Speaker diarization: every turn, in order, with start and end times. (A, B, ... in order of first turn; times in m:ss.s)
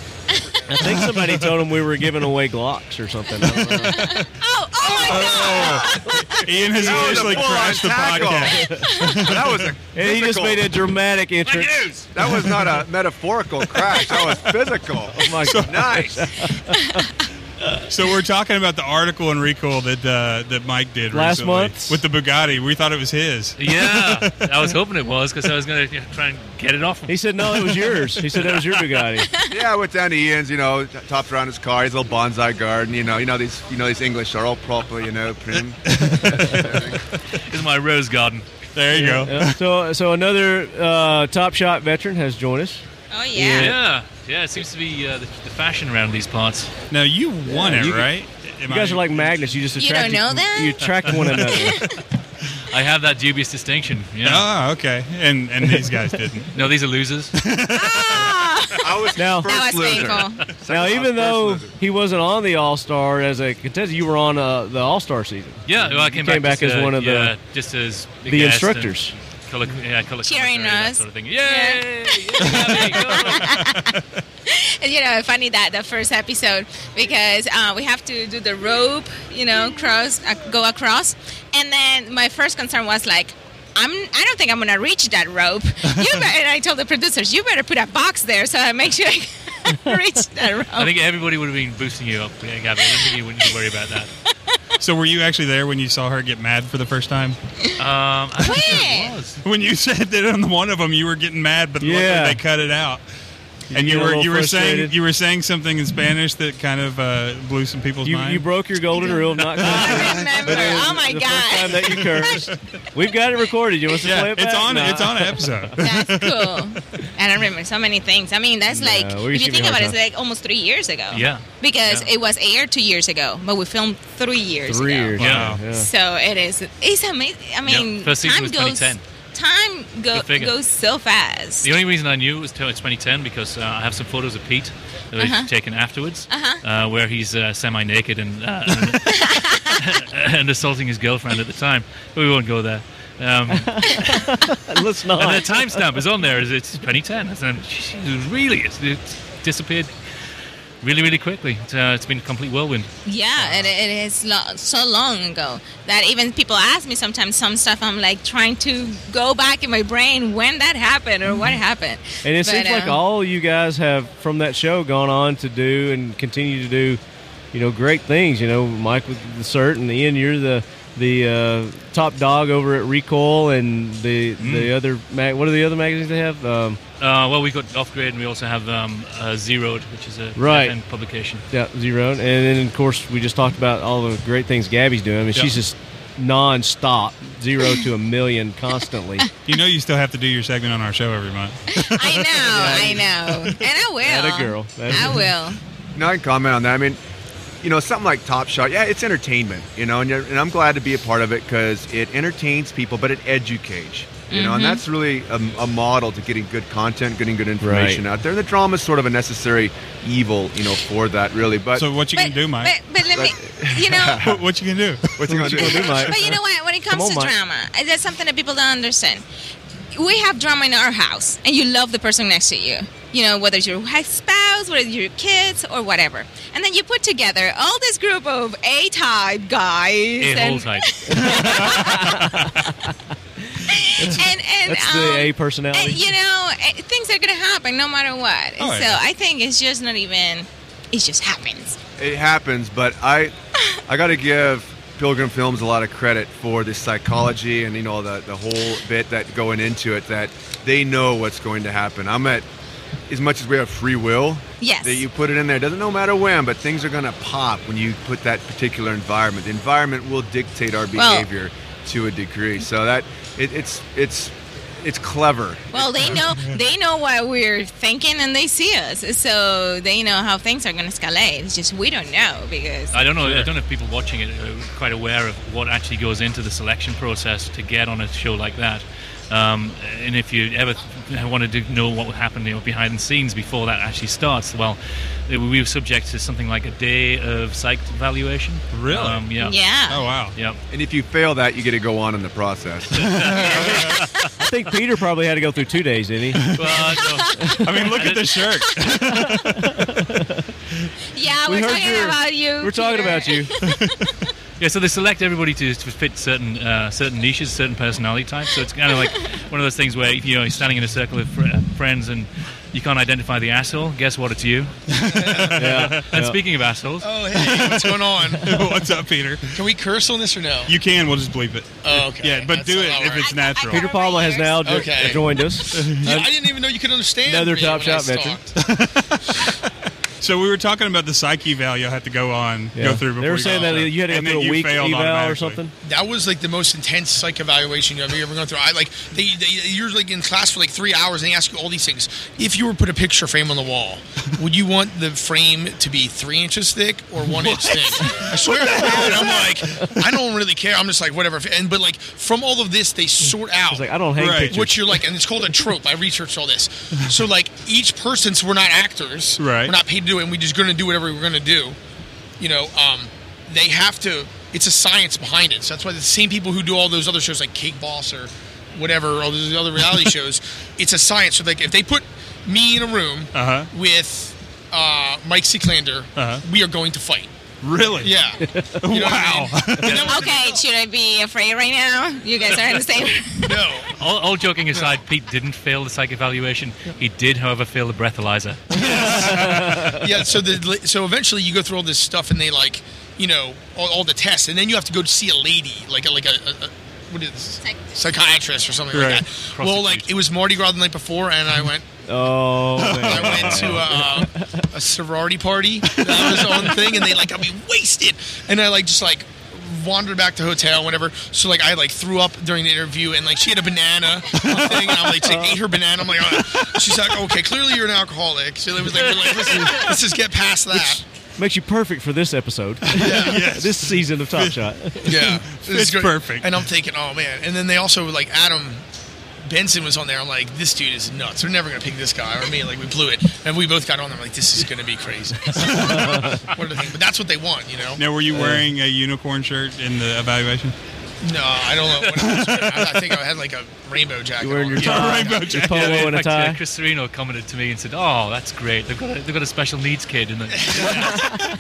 0:00.7-0:04.2 A
0:00.9-0:01.4 B
0:03.6-0:06.9 C
0:05.0-0:09.7 B
0:05.2-0:05.7 D
0:06.8-0:10.8 D
0:08.5-0:08.8 A
0:08.8-0:09.2 C
0:10.0-0:12.0 A
0:11.6-0:16.3 D
0:15.1-0:17.0 A
0:15.4-0:16.0 B
0:17.9-0:24.4 B
0:21.1-0:22.0 A
0:23.6-0:27.7 E
0:27.1-0:29.3 A
0:29.2-0:29.6 C
0:29.5-0:37.0 D
0:35.9-0:36.6 B
0:37.5-0:38.4 E
0:38.8-0:39.6 B
0:38.9-0:42.8 A
0:43.1-0:43.7 C
0:43.4-0:43.8 A
0:43.6-0:46.8 E
0:46.9-0:49.5 B
0:47.4-0:48.1 A
0:48.7-0:51.8 A
0:49.8-0:52.0 C
0:52.7-0:54.5 E
0:54.2-0:56.6 B
0:56.5-0:57.4 E
0:57.4-0:58.3 B
0:57.7-1:00.5 C
0:58.8-1:01.7 D
0:59.2-0:59.5 A
1:00.7-1:07.3 A
1:05.7-1:13.6 E
1:08.3-1:09.1 A
1:10.2-1:30.9 C
1:30.8-1:34.1 E
1:34.8-1:37.4 B
1:37.8-1:39.4 E
1:38.4-1:39.2 C
1:39.4-1:43.0 B
1:41.8-1:42.4 A
1:43.7-1:44.9 A
1:43.7-1:48.5 B
1:48.0-1:55.7 A
1:49.0-1:52.5 C
1:49.1-1:50.7 B
1:54.0-1:56.7 B
1:55.8-2:11.7 C
1:58.7-2:00.0 A
2:01.1-2:02.1 E
2:04.7-2:05.9 A
2:05.2-2:05.6 B
2:05.2-2:05.5 E
2:07.6-2:09.0 E
2:10.1-2:10.6 E
2:11.6-2:24.3 E
2:15.2-2:15.5 C
2:16.3-2:16.6 C
2:19.1-2:19.7 C
2:23.5-2:25.8 A
2:25.2-2:29.9 E
2:30.8-2:32.9 E
2:33.1-2:43.0 C
2:42.2-2:47.0 A
2:47.5-2:56.8 A
2:54.4-2:54.7 E
2:57.0-3:01.4 E
3:00.4-3:00.8 A
3:01.5-3:09.2 A
3:09.5-3:12.3 B
3:11.7-3:15.6 C
3:12.5-3:13.1 A
3:14.0-3:15.3 A
3:16.0-3:17.0 D
3:17.6-3:31.9 D
3:24.3-3:24.8 C
3:27.6-3:28.0 A
3:31.8-3:32.8 B
3:32.2-3:34.2 C
3:33.0-3:34.4 D
3:34.2-3:35.3 B
3:35.2-3:36.2 D
3:35.3-3:36.2 A
3:35.9-3:39.2 C
3:36.9-3:37.3 A
3:39.9-3:52.4 C
3:50.2-3:51.8 E
3:51.1-3:52.6 A
3:53.5-3:56.1 A
3:53.7-4:01.8 C
3:58.6-3:59.0 B
4:02.0-4:03.3 D
4:03.9-4:12.5 D
4:13.1-4:26.1 D
4:14.6-4:15.0 C
4:21.0-4:21.3 C
4:25.7-4:33.1 C
4:26.2-4:26.6 B
4:32.9-4:49.6 E
4:48.7-4:49.3 B
4:49.4-4:50.1 C
4:49.9-4:50.4 B
4:50.7-4:53.5 D
4:53.0-4:54.1 E
4:53.1-4:54.0 B
4:53.6-4:53.9 C
4:54.4-4:56.4 A
4:56.4-4:56.8 B
4:56.6-4:58.4 E
4:57.6-4:59.8 B
4:59.1-5:00.4 A
5:01.1-5:03.8 C
5:01.5-5:03.5 A
5:03.6-5:04.1 B
5:04.6-5:14.8 E
5:14.9-5:16.1 B
5:15.1-5:15.6 F
5:15.6-5:16.4 A
5:16.1-5:17.1 E
5:17.0-5:18.7 F
5:17.4-5:19.6 B
5:19.5-5:20.8 F
5:20.7-5:23.9 B
5:21.8-5:23.3 F
5:23.2-5:24.9 C
5:23.7-5:26.3 A
5:24.6-5:28.5 F
5:25.7-5:26.2 B
5:27.2-5:28.4 A
5:28.6-5:29.6 B
5:30.2-5:35.6 B
5:32.8-5:35.7 A
5:35.8-5:53.9 F
5:47.2-5:50.1 B
5:48.8-5:49.1 A
5:53.7-5:54.8 A
5:54.2-5:54.9 B
5:54.5-6:01.8 F
5:59.4-5:59.7 B
6:02.4-6:17.3 F
6:13.3-6:13.7 B
6:16.2-6:16.4 B
6:17.6-6:18.2 B
6:18.0-6:20.6 F
6:18.5-6:18.8 A
6:18.8-6:20.1 B
6:20.0-6:23.6 C
6:23.4-6:23.9 F
6:24.0-6:29.2 E
6:24.7-6:25.0 F
6:28.8-6:29.4 F
6:28.8-6:30.0 A
6:28.9-6:29.9 B
6:30.0-6:41.8 F
6:37.6-6:38.0 C
6:38.9-6:39.2 B
6:39.5-6:40.1 E
6:42.1-6:44.6 A
6:42.8-6:44.0 B
6:43.0-7:01.0 F
6:45.9-6:47.2 B
6:54.3-6:55.2 B
6:55.3-6:55.5 A
7:01.4-7:05.2 A
7:02.9-7:06.6 B
7:03.0-7:03.5 F
7:05.0-7:08.8 F
7:09.4-7:18.0 F
7:15.5-7:16.3 B
7:15.9-7:16.4 A
7:18.0-7:20.8 B
7:18.3-7:18.6 A
7:21.2-7:25.5 F
7:22.1-7:23.0 B
7:24.4-7:26.6 A
7:24.8-7:26.2 B
7:25.6-7:31.2 E
7:30.5-7:31.4 F